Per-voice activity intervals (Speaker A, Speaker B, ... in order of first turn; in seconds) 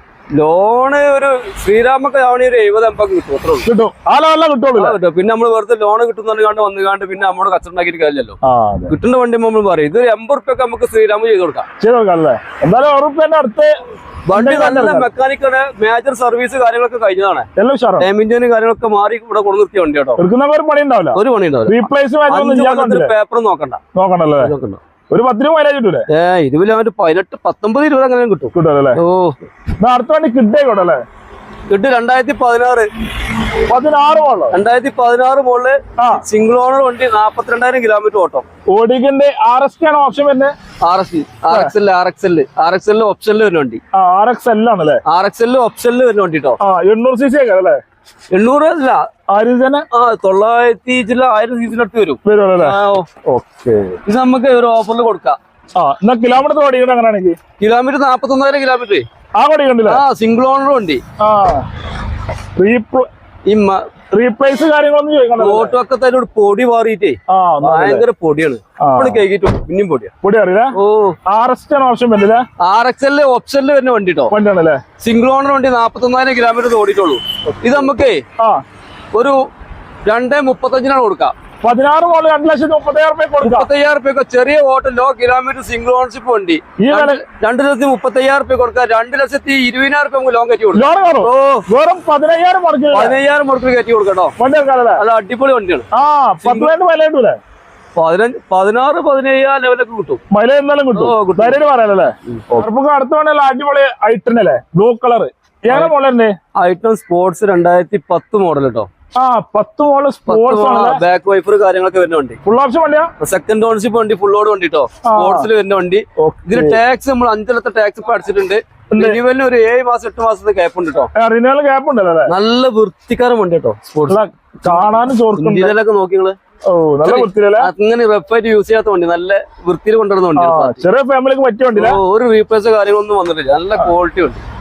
Speaker A: 0.3-3.7, 4.8-8.4, 8.9-11.7, 14.3-17.4, 18.0-20.2, 21.1-23.8, 24.4-24.8, 26.1-29.4, 31.7-32.9, 34.5-38.4, 40.8-43.8, 45.1-46.6, 48.3-49.0, 49.9-53.1, 54.0-55.4, 57.6-59.0, 59.9-61.0, 63.5-63.8, 65.4-70.1, 70.7-71.2, 72.6-74.3, 75.0-78.2, 80.0-81.3, 83.4-91.7, 92.9-94.3, 95.0-95.8, 96.4-96.7, 98.0-100.2, 100.9-101.6, 102.3-102.6, 106.6-108.9, 110.3-112.4, 113.2-121.1, 122.3-126.3, 127.0-130.8, 131.8-134.4
Speaker B: 3.6-5.0, 8.4-8.9, 11.8-13.7, 14.3-15.1, 17.6-18.1, 20.2-23.1, 23.9-24.5, 25.1-26.1, 28.5-29.0, 29.8-31.0, 33.7-34.5, 38.7-40.5, 41.5-41.7, 43.9-45.0, 46.6-47.8, 49.3-49.9, 52.2-52.7, 53.3-54.0, 55.8-57.4, 59.4-60.0, 61.2-61.6, 62.6-63.1, 64.1-65.7, 67.3-68.0, 68.8-69.2, 70.2-70.7, 71.3-72.4, 74.3-74.8, 77.5-77.9, 81.6-83.7, 86.8-87.2, 90.7-93.1, 94.4-95.0, 95.9-97.4, 100.3-106.3, 109.2-111.0, 112.4-113.1, 115.0-115.5, 116.2-116.8, 118.9-119.2, 121.2-122.3, 124.1-125.7, 126.7-127.7, 130.4-132.0